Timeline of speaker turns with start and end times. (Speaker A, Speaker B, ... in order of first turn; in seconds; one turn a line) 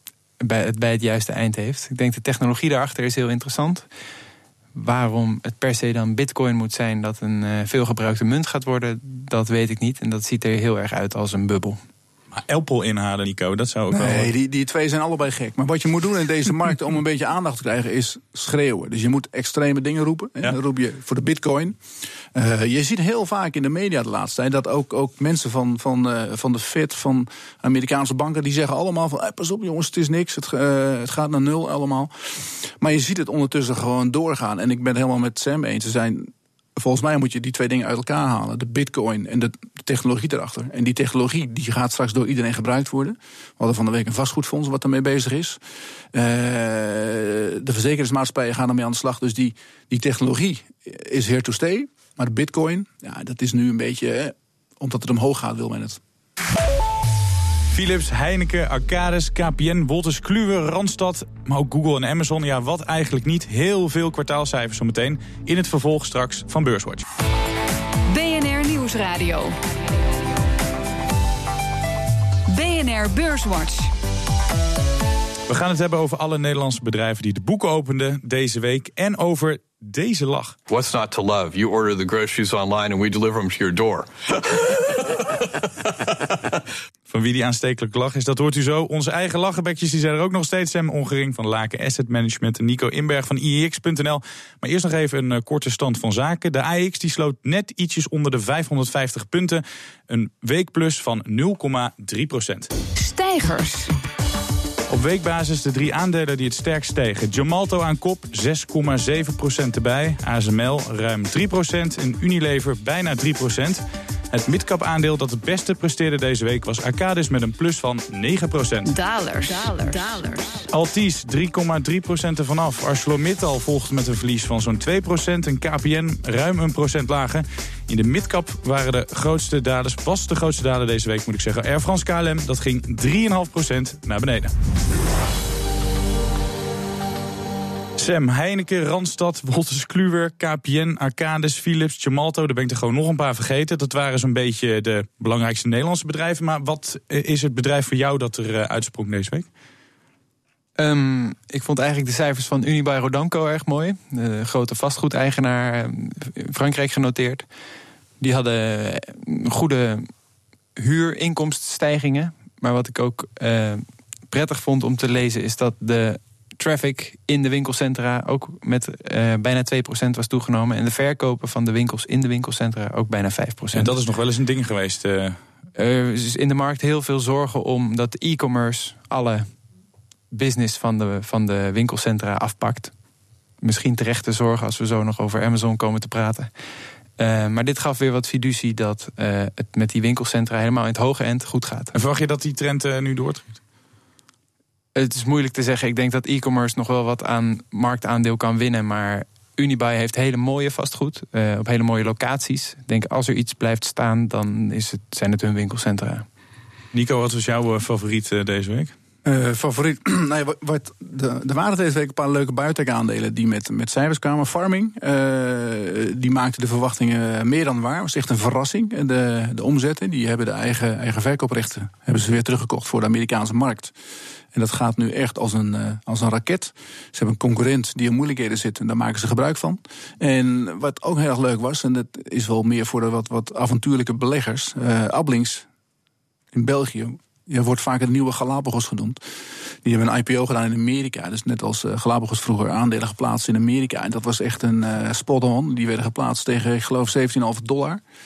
Speaker A: 0.4-3.9
Speaker A: 4.7-11.8
Speaker B: 12.3-14.3
Speaker C: 13.9-21.8
Speaker C: 22.3-45.6
Speaker C: 46.1-56.0
Speaker B: 57.7-67.0
Speaker D: 68.0-69.6
Speaker D: 72.5-73.9
Speaker B: 75.5-80.5
Speaker E: 80.7-85.1
Speaker B: 87.1-102.7
Speaker D: 103.0-103.9
Speaker B: 104.9-118.9
Speaker D: 118.8-120.7
Speaker B: 120.7-134.5
Speaker B: 138.0-149.5
Speaker A: 150.8-157.4
Speaker A: 158.2-160.1
Speaker A: 160.8-173.9
Speaker B: 173.7-175.4
Speaker A: 175.8-179.5
Speaker A: 180.3-182.9
Speaker A: 183.6-186.5
Speaker A: 187.2-191.9
Speaker B: 191.9-193.6
Speaker A: 194.9-206.2
Speaker B: 206.9-208.9
Speaker C: 209.2-223.9
Speaker C: 224.5-235.7
Speaker C: 236.5-239.2
Speaker C: 239.8-248.0